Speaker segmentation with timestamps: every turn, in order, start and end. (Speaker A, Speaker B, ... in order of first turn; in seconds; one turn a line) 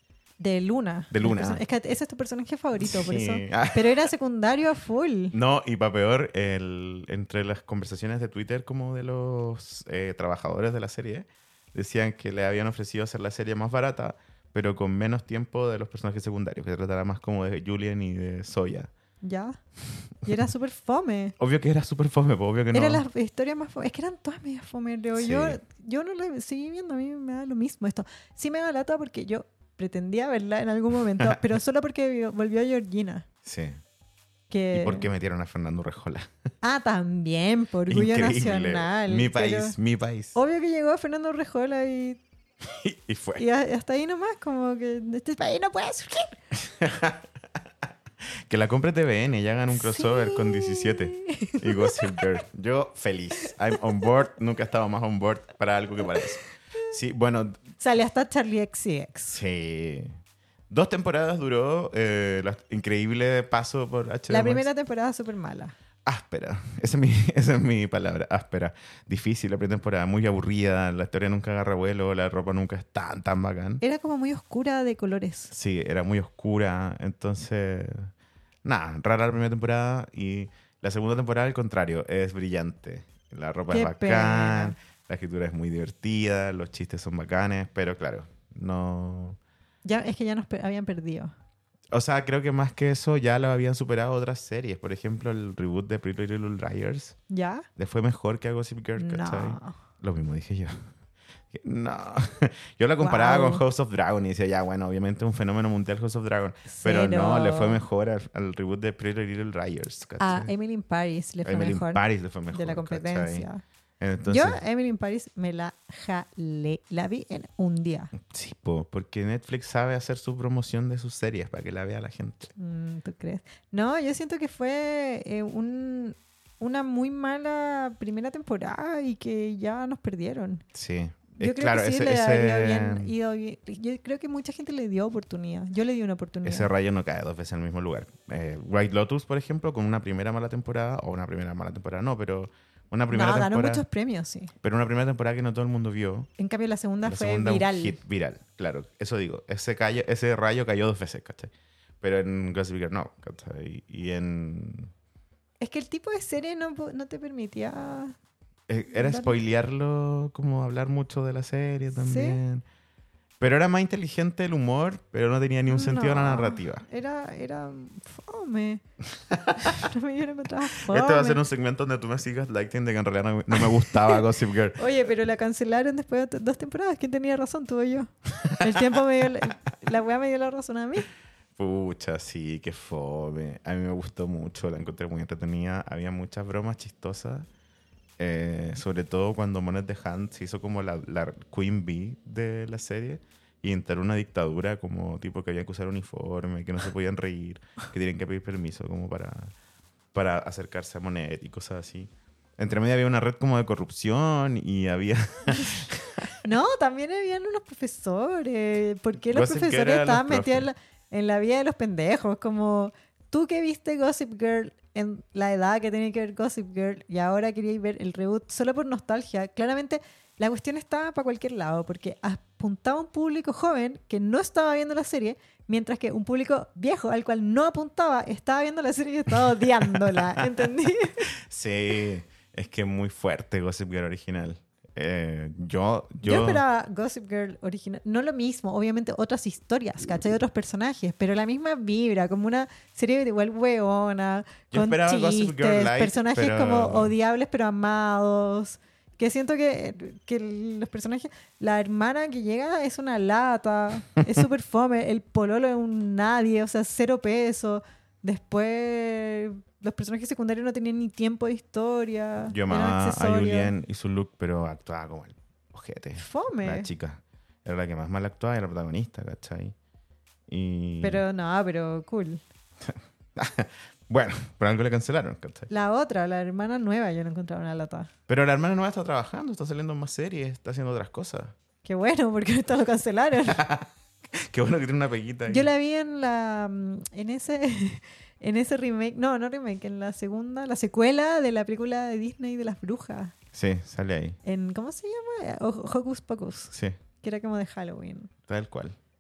Speaker A: 0.4-5.3
Speaker B: 1.1-1.6
Speaker B: 2.8-4.1
Speaker B: 5.3-18.9
Speaker A: 19.2-19.6
Speaker A: 20.2-21.3
Speaker B: 21.4-23.0
Speaker A: 22.7-33.2
Speaker B: 25.1-25.6
Speaker B: 33.4-33.8
Speaker A: 34.5-35.0
Speaker B: 34.7-36.3
Speaker A: 36.6-39.7
Speaker B: 37.9-40.4
Speaker A: 40.3-42.2
Speaker B: 42.6-43.4
Speaker A: 43.4-46.4
Speaker B: 46.6-47.3
Speaker B: 48.5-57.6
Speaker A: 49.7-52.2
Speaker A: 57.8-59.4
Speaker B: 59.3-60.2
Speaker B: 60.7-64.7
Speaker A: 64.3-65.7
Speaker B: 66.0-73.8
Speaker A: 73.8-75.5
Speaker B: 75.5-78.1
Speaker B: 78.6-89.4
Speaker A: 83.7-84.8
Speaker A: 89.8-91.3
Speaker B: 91.9-97.2
Speaker A: 97.3-97.7
Speaker B: 97.8-100.8
Speaker A: 99.0-99.8
Speaker B: 101.5-110.5
Speaker A: 103.0-103.6
Speaker A: 106.7-107.8
Speaker A: 110.2-113.6
Speaker B: 111.4-113.5
Speaker B: 114.0-114.6
Speaker A: 114.3-118.1
Speaker B: 118.2-122.5
Speaker A: 122.6-130.6
Speaker B: 130.7-133.1
Speaker A: 131.4-136.7
Speaker B: 136.4-143.8
Speaker A: 143.1-144.5
Speaker B: 144.6-146.3
Speaker A: 146.4-148.0
Speaker B: 147.0-154.9
Speaker A: 155.6-158.2
Speaker B: 158.7-162.6
Speaker A: 158.9-159.3
Speaker A: 162.0-162.4
Speaker B: 163.4-166.8
Speaker A: 165.7-168.8
Speaker B: 169.3-169.8
Speaker A: 169.6-171.4
Speaker B: 170.8-174.8
Speaker A: 174.8-181.1
Speaker B: 178.4-178.8
Speaker B: 181.6-187.5
Speaker B: 188.2-199.5
Speaker B: 200.1-206.2
Speaker A: 206.4-231.3
Speaker B: 209.3-210.7
Speaker B: 229.8-230.4
Speaker B: 231.4-236.6
Speaker A: 236.2-263.7
Speaker B: 244.7-247.1
Speaker B: 262.5-269.7
Speaker A: 266.1-266.9
Speaker B: 270.5-271.2
Speaker A: 271.0-272.4
Speaker B: 272.8-275.7
Speaker A: 275.7-278.1
Speaker B: 278.3-281.5
Speaker A: 281.8-283.6
Speaker B: 283.4-285.7
Speaker A: 285.5-293.3
Speaker B: 293.5-294.4
Speaker A: 294.4-298.3
Speaker B: 298.5-299.0